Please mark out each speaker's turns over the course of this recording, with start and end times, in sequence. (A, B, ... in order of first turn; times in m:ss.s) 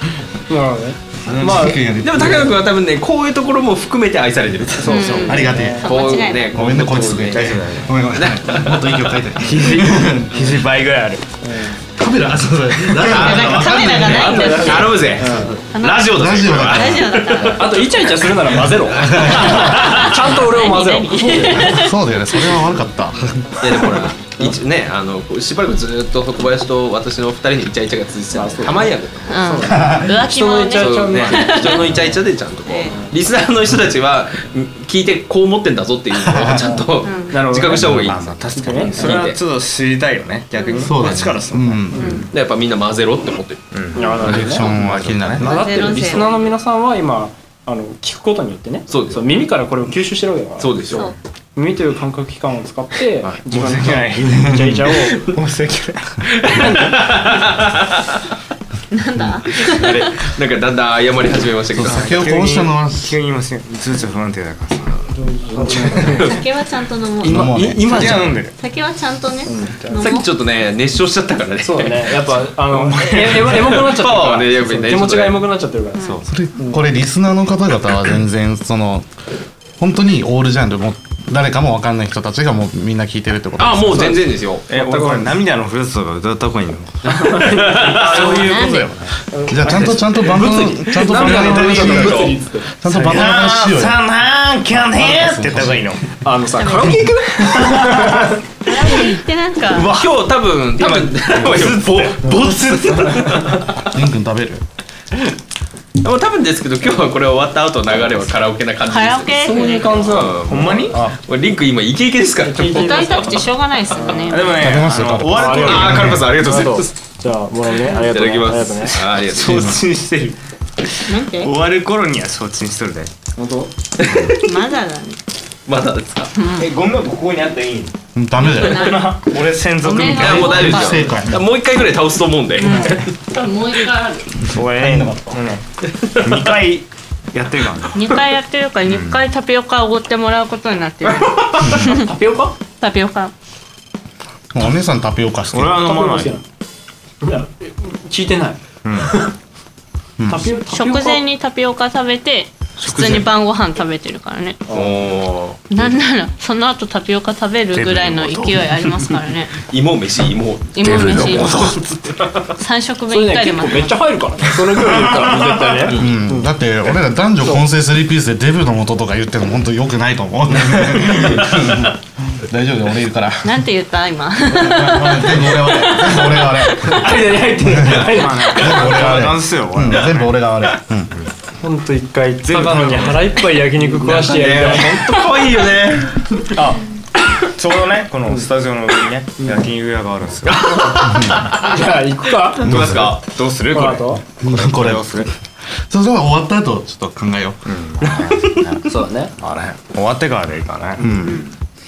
0:00.5-0:01.8 A
0:01.3-0:02.6 B
0:01.3-0:01.7 C
0:02.0-0:05.2 D
0:04.8-0:05.9 A
0:04.8-0:06.6 E
0:04.9-0:05.4 C
0:05.2-0:05.9 B
0:05.8-0:09.1 D
0:06.5-0:10.5 B
0:07.3-0:07.9 C
0:09.4-0:11.3 C
0:11.4-0:11.8 A
0:12.0-0:14.5 B
0:12.8-0:19.9 D
0:13.1-0:15.0 E
0:14.4-0:15.6 A
0:15.7-0:17.9 E
0:16.1-0:17.3 B
0:17.5-0:21.8 A
0:19.1-0:19.6 B
0:19.7-0:22.0 E
0:21.5-0:23.8 B
0:23.6-0:29.3 D
0:28.3-0:32.1 A
0:29.3-0:32.0 E
0:29.7-0:30.2 B
0:30.7-0:39.4 D
0:32.7-0:33.0 E
0:36.2-0:36.6 B
0:36.5-0:38.0 A
0:37.0-0:37.5 E
0:37.7-0:42.2 C
0:37.8-0:38.1 B
0:38.5-0:39.2 A
0:40.8-0:42.2 B
0:42.0-0:42.3 A
0:42.0-0:42.3 E
0:42.3-0:43.8 D
0:43.7-0:46.0 C
0:44.0-0:44.7 A
0:44.0-0:44.2 E
0:44.2-0:45.6 B
0:45.4-0:55.3 A
0:45.4-0:46.5 E
0:48.9-0:49.4 D
0:50.6-0:51.1 D
0:53.5-0:56.9 C
0:54.5-0:54.7 B
0:56.3-0:58.2 D
0:58.9-1:00.1 E
0:59.5-1:02.1 D
1:01.7-1:03.2 B
1:01.9-1:05.0 C
1:05.1-1:06.4 A
1:05.6-1:06.3 C
1:06.2-1:10.3 E
1:07.2-1:08.4 B
1:07.2-1:08.6 C
1:09.5-1:10.1 A
1:10.0-1:12.3 D
1:11.6-1:16.8 A
1:12.9-1:13.4 C
1:13.0-1:15.5 D
1:16.0-1:16.3 C
1:16.3-1:19.1 B
1:19.8-1:24.2 B
1:23.6-1:24.6 D
1:24.7-1:25.4 A
1:24.7-1:27.2 C
1:27.0-1:32.7 A
1:27.3-1:28.4 D
1:27.8-1:28.9 C
1:28.1-1:28.9 E
1:29.5-1:34.0 B
1:29.7-1:32.3 C
1:31.8-1:32.2 D
1:32.9-1:36.0 C
1:34.7-1:36.0 B
1:36.2-1:38.4 A
1:36.6-1:37.0 E
1:37.3-1:38.4 C
1:38.7-1:39.9 E
1:39.7-1:40.2 C
1:39.8-1:43.9 D
1:40.8-1:43.5 C
1:43.9-1:44.6 B
1:46.0-1:53.3 D
1:48.9-1:50.2 E
1:49.4-1:51.1 A
1:50.5-1:51.1 C
1:52.4-1:54.5 A
1:52.7-1:54.6 E
1:54.3-1:56.1 C
1:54.5-1:56.2 B
1:55.3-1:59.0 A
1:55.5-1:56.9 D
1:57.9-1:59.8 D
1:59.2-2:03.1 C
1:59.5-1:59.8 B
2:01.1-2:01.5 E
2:03.4-2:03.7 A
2:04.0-2:04.6 D
2:04.0-2:04.4 C
2:04.4-2:05.2 E
2:05.7-2:06.4 D
2:06.4-2:06.7 E
2:06.5-2:11.0 C
2:08.2-2:09.0 B
2:08.5-2:09.1 E
2:09.8-2:11.0 E
2:10.0-2:13.2 D
2:10.2-2:11.4 B
2:12.6-2:14.5 E
2:14.5-2:18.2 C
2:14.7-2:15.4 B
2:16.0-2:16.4 D
2:17.9-2:22.1 E
2:18.9-2:19.2 C
2:21.6-2:22.6 A
2:22.7-2:23.3 E
2:24.5-2:26.0 B
2:25.5-2:26.4 C
2:25.8-2:26.4 A
2:27.2-2:29.4 A
2:28.8-2:29.1 C
2:30.2-2:30.5 B
2:30.3-2:31.2 A
2:30.6-2:34.6 E
2:34.7-2:35.0 A
2:34.7-2:35.7 D
2:35.7-2:39.6 E
2:37.7-2:39.1 C
2:39.7-2:42.1 D
2:40.8-2:41.8 E
2:40.8-2:41.8 C
2:42.6-2:44.0 E
2:43.1-2:46.5 A
2:45.4-2:45.9 C
2:45.9-2:53.6 B
2:53.4-2:56.5 E
2:54.5-3:01.1 B
2:56.7-2:58.7 A
2:57.9-3:00.4 C
3:01.6-3:05.1 A
3:02.5-3:03.3 C
3:03.9-3:05.6 C
3:04.0-3:06.2 D
3:06.5-3:06.8 C
3:07.4-3:10.8 C
3:09.4-3:09.7 A
3:10.5-3:11.8 D
3:10.7-3:12.8 A
3:11.0-3:11.4 B
3:12.6-3:13.2 D
3:12.6-3:13.2 B
3:12.7-3:15.3 C
3:13.7-3:14.2 A
3:14.4-3:15.3 B
3:15.9-3:17.7 B
3:17.7-3:21.5 C
3:18.9-3:19.3 A